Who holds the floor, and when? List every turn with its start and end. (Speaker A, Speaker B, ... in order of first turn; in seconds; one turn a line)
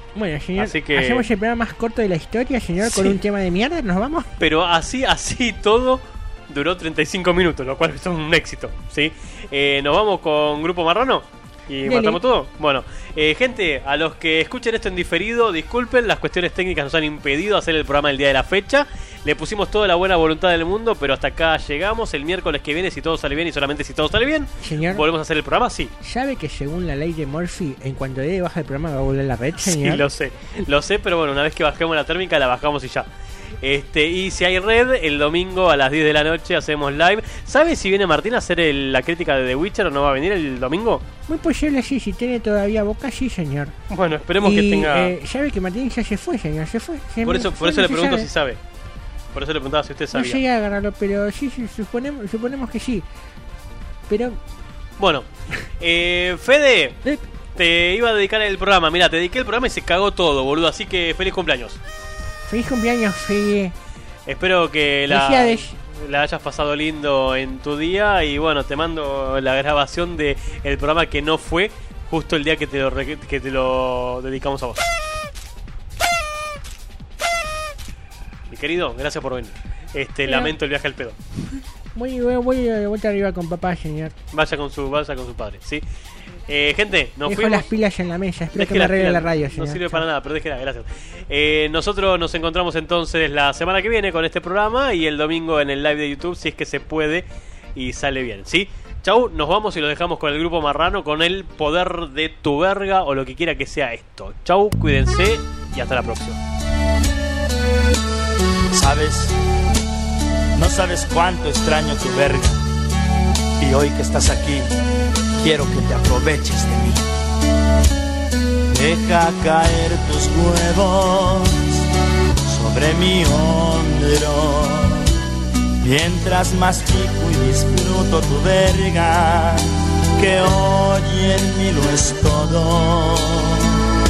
Speaker A: 0.1-4.3
Speaker B: 0.6-1.3
Speaker B: 2.8-3.1
Speaker B: 4.4-25.9
Speaker A: 11.8-12.2
Speaker A: 24.6-25.0
Speaker A: 26.0-30.0
Speaker B: 29.6-33.1
Speaker B: 33.6-41.0
Speaker A: 41.3-43.7
Speaker B: 43.9-45.1
Speaker A: 44.4-48.3
Speaker B: 47.2-48.6
Speaker B: 49.3-50.4
Speaker A: 50.1-53.0
Speaker A: 54.1-54.4
Speaker B: 55.0-57.0
Speaker B: 57.5-61.8
Speaker A: 62.5-63.7
Speaker B: 64.2-74.9
Speaker A: 65.1-65.7
Speaker B: 78.5-81.2
Speaker A: 80.2-80.5
Speaker A: 81.9-84.1
Speaker B: 84.3-85.8
Speaker B: 86.5-87.7
Speaker A: 87.2-90.0
Speaker B: 88.5-106.4
Speaker C: 108.7-109.3
Speaker C: 110.5-112.6
Speaker C: 113.6-114.7
Speaker C: 115.3-117.0
Speaker C: 118.7-121.8
Speaker C: 122.5-125.1
Speaker C: 125.8-129.6
Speaker C: 130.2-133.8